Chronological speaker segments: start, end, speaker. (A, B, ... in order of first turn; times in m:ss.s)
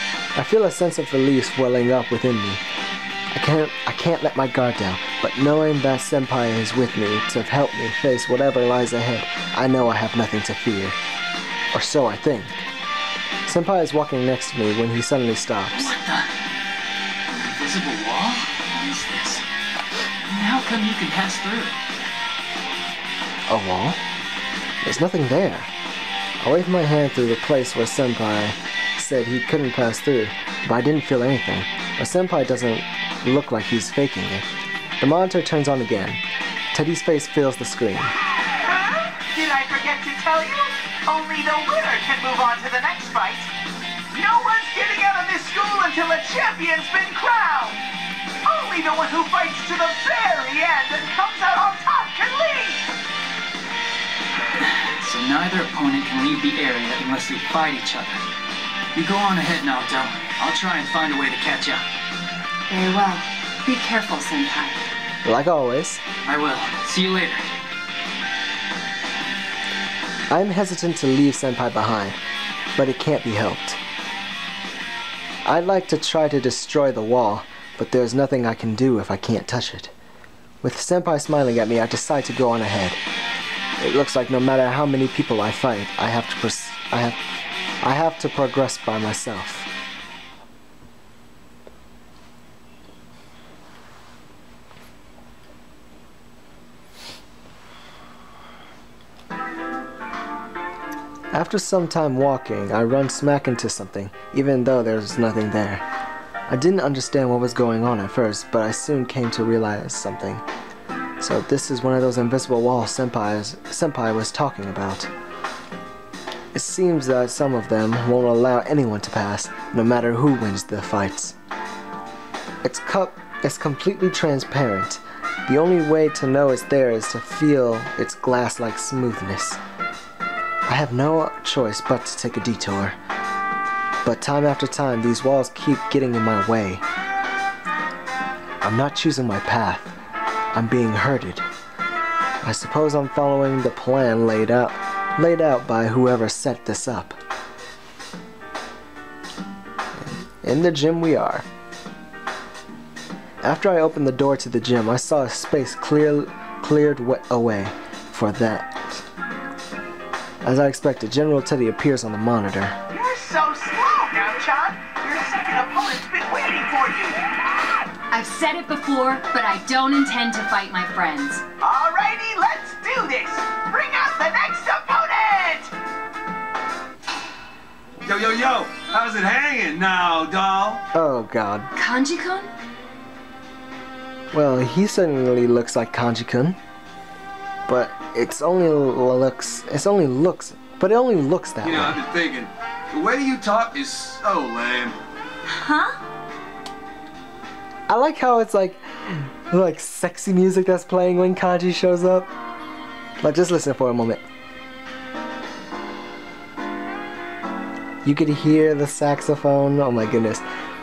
0:00.3-0:02.6 A
0:03.3-0:11.0 A
0:11.7-0:12.6 A
0:13.4-0:15.9 A
0:15.7-0:16.3 B
0:17.3-0:19.4 B
0:20.2-0:21.7 B
0:23.5-0:24.0 A
0:24.8-0:25.7 A
0:26.4-0:34.4 A
0:35.0-0:36.2 A
0:36.7-0:38.1 A
0:38.4-0:43.5 C
0:44.1-0:47.8 C
0:48.4-0:52.8 C
0:54.6-0:58.2 B
0:58.9-1:01.8 B
1:02.7-1:04.8 D
1:05.2-1:06.0 A
1:06.2-1:07.5 B
1:10.3-1:12.2 A
1:12.8-1:13.8 A
1:15.4-1:19.9 A
1:20.6-1:23.0 A
1:23.8-1:27.2 A
1:27.8-1:29.7 A
1:41.3-1:45.8 A
1:46.5-1:50.4 A
1:51.2-1:55.1 A
1:56.5-2:01.4 A
2:02.6-2:09.6 A
2:10.7-2:13.0 A
2:14.0-2:16.8 A
2:18.6-2:19.9 A
2:20.5-2:21.4 A
2:22.4-2:27.2 A
2:30.0-2:31.4 A
2:33.4-2:39.0 A
2:40.4-2:42.8 A
2:42.9-2:47.8 C
2:48.1-2:51.4 D
2:51.6-2:55.7 C
2:58.0-3:00.8 E
3:00.9-3:01.7 A
3:01.7-3:02.5 D
3:04.3-3:06.6 A
3:07.6-3:12.0 A
3:11.6-3:15.0 E
3:15.5-3:16.0 D
3:17.9-3:22.3 A
3:23.2-3:24.2 A
3:28.0-3:30.4 A